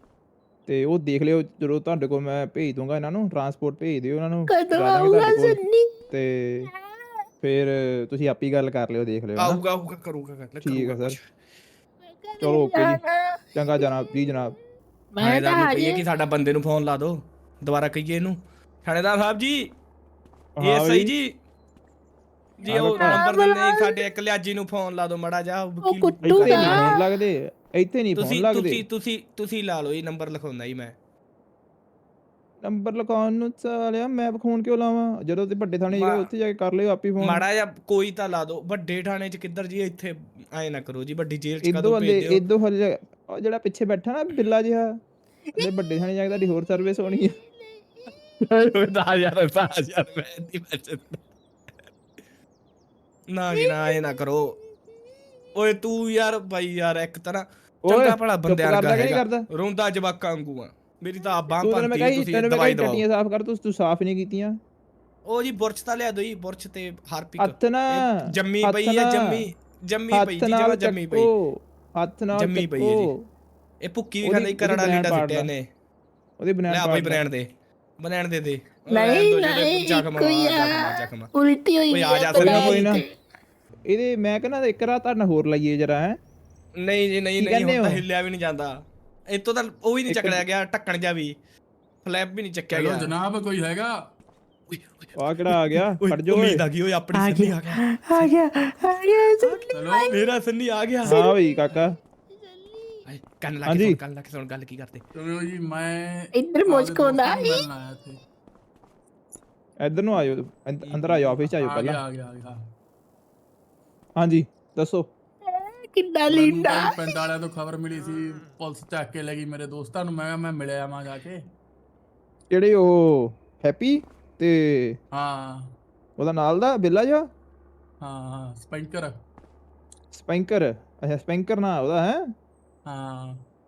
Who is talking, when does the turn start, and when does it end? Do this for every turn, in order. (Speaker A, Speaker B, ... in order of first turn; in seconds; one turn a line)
Speaker A: 0.7-6.7
Speaker B: 4.5-5.9
Speaker B: 6.7-7.0
Speaker A: 7.4-9.6
Speaker C: 9.4-11.3
Speaker A: 10.6-11.2
Speaker B: 12.2-14.4
Speaker A: 12.4-13.0
Speaker A: 13.5-14.5
Speaker B: 15.1-16.0
Speaker C: 15.2-19.7
Speaker A: 20.6-21.1
Speaker C: 20.6-21.4
Speaker C: 22.6-26.9
Speaker A: 22.7-23.2
Speaker B: 22.9-24.0
Speaker B: 25.8-27.0
Speaker A: 26.2-28.8
Speaker C: 28.1-30.9
Speaker A: 32.6-37.4
Speaker C: 35.9-36.3
Speaker C: 37.2-42.4
Speaker A: 41.6-45.0
Speaker A: 45.5-47.4
Speaker C: 48.4-51.2
Speaker C: 53.3-54.6
Speaker B: 53.5-54.2
Speaker C: 55.5-63.0
Speaker A: 57.8-59.5
Speaker A: 61.6-64.6
Speaker C: 65.2-71.3
Speaker A: 67.4-69.5
Speaker A: 70.1-73.2
Speaker C: 72.3-73.1
Speaker C: 73.8-75.7
Speaker A: 74.2-75.5
Speaker A: 76.4-77.2
Speaker C: 76.7-81.3
Speaker B: 78.9-83.1
Speaker C: 81.9-82.8
Speaker A: 82.3-83.0
Speaker A: 83.9-86.2
Speaker C: 86.8-91.3
Speaker A: 87.4-88.0
Speaker A: 90.1-90.4
Speaker C: 92.0-93.1
Speaker D: 92.7-93.9
Speaker C: 94.7-95.2
Speaker A: 95.2-96.6
Speaker C: 96.0-98.3
Speaker B: 97.1-100.2
Speaker C: 99.4-101.2
Speaker D: 99.7-100.2
Speaker A: 101.0-101.9
Speaker B: 102.5-103.0
Speaker C: 103.1-105.0
Speaker A: 103.7-104.0
Speaker D: 105.2-108.2
Speaker B: 106.3-107.6
Speaker A: 109.8-112.0
Speaker C: 110.8-111.3
Speaker D: 111.5-112.6
Speaker A: 114.2-115.1
Speaker B: 115.5-117.0
Speaker D: 116.3-121.4
Speaker A: 122.5-125.0
Speaker D: 125.1-125.7
Speaker A: 126.2-127.3
Speaker D: 128.0-129.2
Speaker A: 130.1-132.3
Speaker D: 132.9-133.4